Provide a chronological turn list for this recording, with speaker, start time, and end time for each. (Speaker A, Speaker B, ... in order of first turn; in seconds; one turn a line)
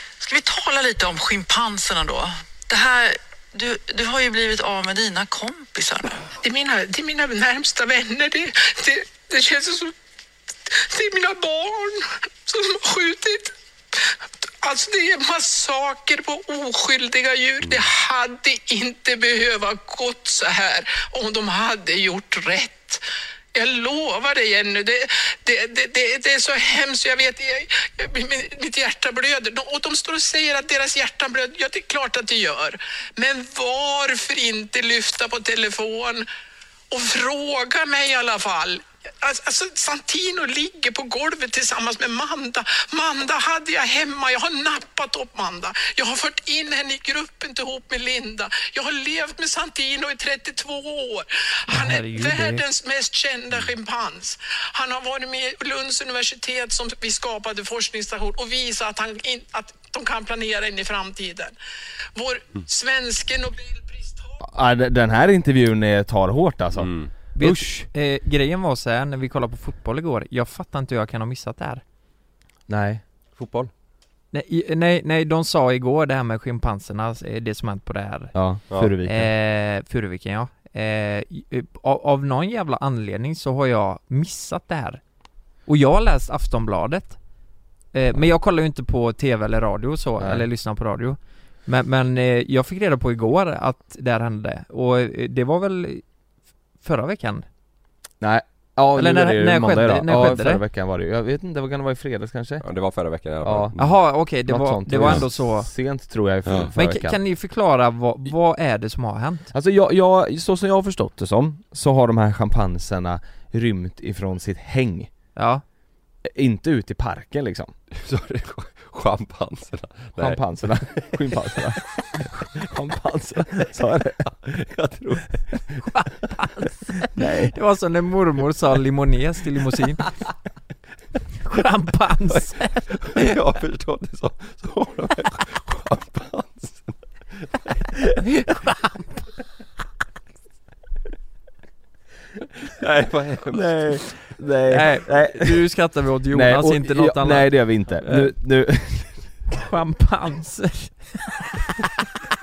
Speaker A: 0.2-6.3
Speaker B: 6.4-9.9
Speaker B: 10.7-36.2
Speaker B: 36.9-61.5
Speaker C: 51.7-52.6
Speaker B: 62.1-64.3
Speaker D: 64.4-67.7
Speaker E: 66.8-67.1
Speaker C: 67.3-71.8
Speaker D: 72.7-73.0
Speaker E: 73.4-73.7
Speaker C: 74.3-78.3
Speaker D: 78.3-79.3
Speaker C: 79.0-85.0
Speaker C: 85.7-87.2
Speaker C: 87.9-96.0
Speaker D: 90.2-90.4
Speaker C: 96.8-97.4
Speaker D: 98.2-102.6
Speaker C: 99.0-100.6
Speaker E: 102.6-103.9
Speaker D: 103.4-103.8
Speaker C: 103.8-105.7
Speaker D: 104.5-107.2
Speaker C: 106.8-109.5
Speaker D: 109.5-115.1
Speaker C: 115.3-115.6
Speaker D: 116.2-117.7
Speaker E: 117.9-121.1
Speaker D: 120.2-124.3
Speaker E: 124.4-125.5
Speaker C: 125.8-130.0
Speaker D: 127.2-127.5
Speaker C: 131.4-132.8
Speaker E: 132.9-138.0
Speaker C: 138.5-139.0
Speaker E: 142.8-143.7
Speaker D: 143.5-145.6
Speaker C: 144.7-148.3
Speaker D: 146.3-149.2
Speaker C: 149.5-151.0